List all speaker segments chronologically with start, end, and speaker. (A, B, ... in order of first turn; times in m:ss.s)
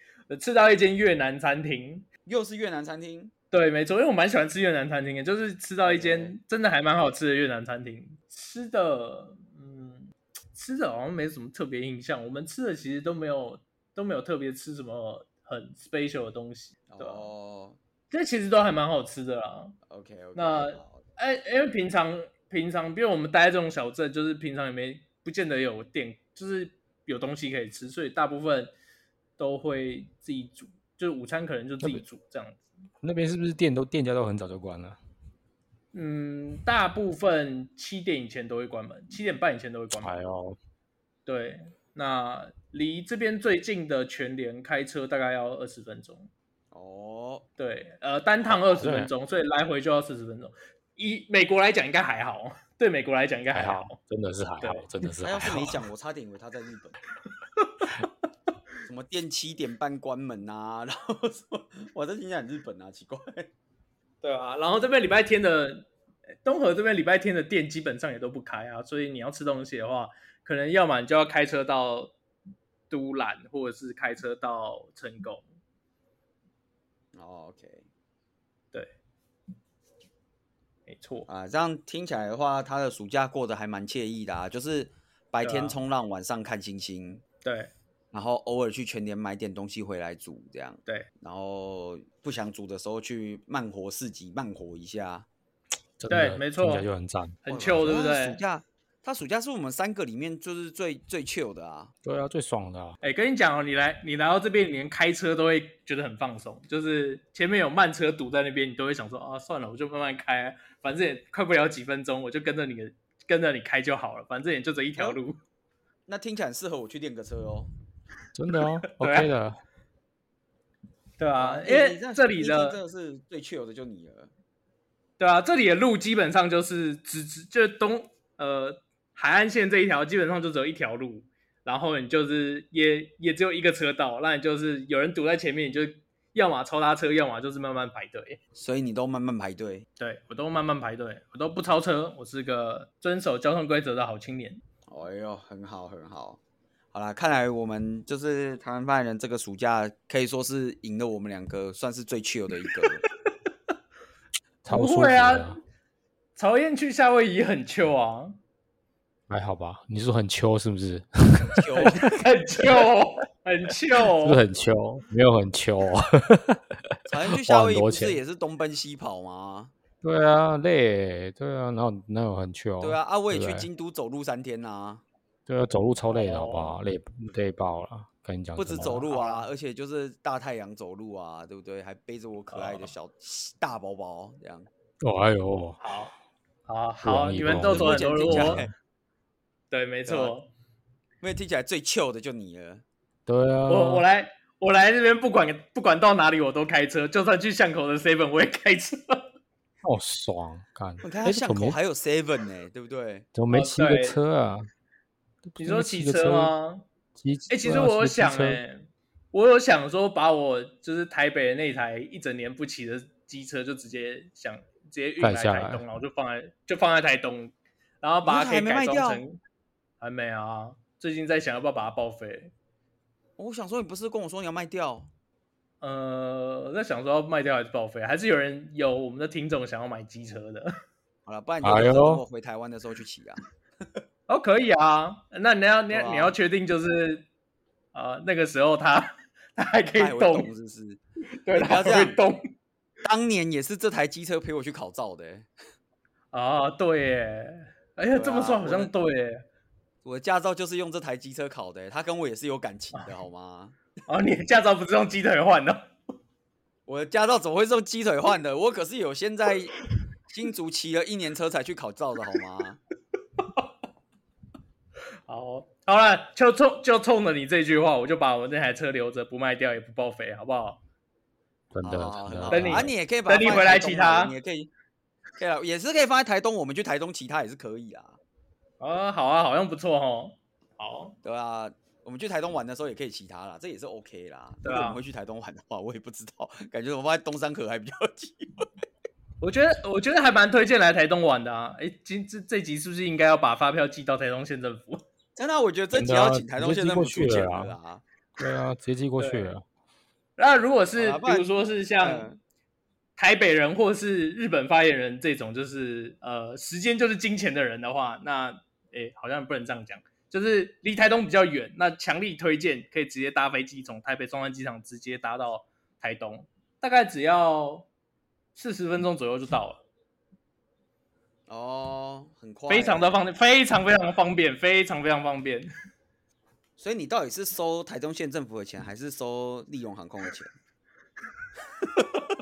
0:00.3-0:02.1 A
0:02.3-0:03.3 B
0:03.5-0:17.3 A
0:05.8-0:06.4 B
0:16.9-0:17.8 B
0:18.1-0:19.8 A
0:19.9-0:21.0 B
0:20.4-0:28.7 A
0:29.4-0:32.6 A
0:33.0-0:35.0 C
0:35.9-0:40.1 A
0:40.0-0:40.6 C
0:41.3-0:46.3 A
0:46.7-0:47.5 B
0:47.6-0:54.0 A
0:48.5-0:49.1 C
0:53.5-0:55.8 C
0:54.6-0:54.9 A
0:55.2-0:57.0 B
0:57.6-0:57.9 A
0:58.9-1:03.5 B
1:04.2-1:05.9 A
1:06.4-1:12.1 A
1:12.9-1:15.4 A
1:17.1-1:17.9 B
1:20.9-1:21.3 A
1:21.3-1:27.2 B
1:25.4-1:25.8 A
1:27.4-1:27.7 A
1:28.1-1:35.3 B
1:36.0-1:37.4 C
1:36.1-1:36.9 A
1:37.4-1:38.4 A
1:37.5-1:41.9 B
1:42.0-1:43.0 C
1:43.0-1:55.4 A
1:56.1-1:57.7 B
1:58.4-1:59.6 C
1:59.0-1:59.3 A
2:01.2-2:02.8 A
2:01.4-2:04.3 B
2:05.2-2:18.4 A
2:18.6-2:19.9 B
2:20.0-2:24.6 A
2:24.9-2:26.4 B
2:26.9-2:33.0 B
2:34.6-2:35.6 C
2:34.7-2:35.6 A
2:36.4-2:38.4 A
2:39.3-2:41.7 C
2:41.5-2:42.0 B
2:41.8-2:44.4 A
2:44.2-2:46.6 C
2:47.1-2:49.7 B
2:47.3-2:48.2 C
2:50.0-2:53.7 C
2:52.8-2:55.0 B
2:55.5-2:59.0 C
2:56.1-2:56.8 A
2:58.6-3:04.7 B
2:59.1-2:59.5 A
3:02.5-3:02.9 A
3:05.0-3:05.8 C
3:05.8-3:06.1 A
3:06.7-3:08.6 A
3:07.0-3:08.7 C
3:07.6-3:08.7 B
3:09.7-3:10.5 A
3:10.1-3:10.3 B
3:11.2-3:12.8 B
3:13.3-3:14.0 C
3:13.7-3:19.2 A
3:19.8-3:21.8 C
3:21.0-3:23.3 B
3:23.4-3:24.7 C
3:23.5-3:24.2 A
3:25.5-3:26.5 C
3:25.6-3:26.8 A
3:27.2-3:28.6 C
3:27.5-3:39.4 A
3:35.2-3:35.8 C
3:38.2-3:39.2 B
3:40.0-3:42.5 A
3:43.4-3:45.1 B
3:45.8-3:50.7 A
3:51.3-3:53.4 B
3:51.6-3:52.2 C
3:54.3-3:57.3 A
3:55.9-3:56.4 B
3:57.9-4:00.5 A
4:00.0-4:01.0 B
4:01.4-4:02.4 A
4:01.5-4:02.2 B
4:03.0-4:05.5 B
4:06.3-4:09.4 A
4:08.1-4:08.9 B
4:10.0-4:13.8 B
4:14.1-4:15.8 A
4:16.9-4:22.8 B
4:23.4-4:23.7 A
4:25.3-4:30.8 A
4:31.7-4:32.9 C
4:31.8-4:34.7 B
4:32.5-4:34.3 A
4:35.4-4:38.2 B
4:38.8-4:41.2 A
4:41.2-4:48.7 B
4:44.6-4:45.0 A
4:49.4-4:55.0 A
4:55.4-4:58.0 B
4:56.0-4:57.7 C
4:58.4-4:59.6 C
4:59.2-4:59.5 A
5:00.4-5:02.3 A
5:01.0-5:02.4 B
5:03.2-5:17.9 A
5:18.6-5:19.8 A
5:21.5-5:23.1 B
5:22.7-5:25.7 A
5:26.8-5:30.5 B
5:31.8-5:32.2 B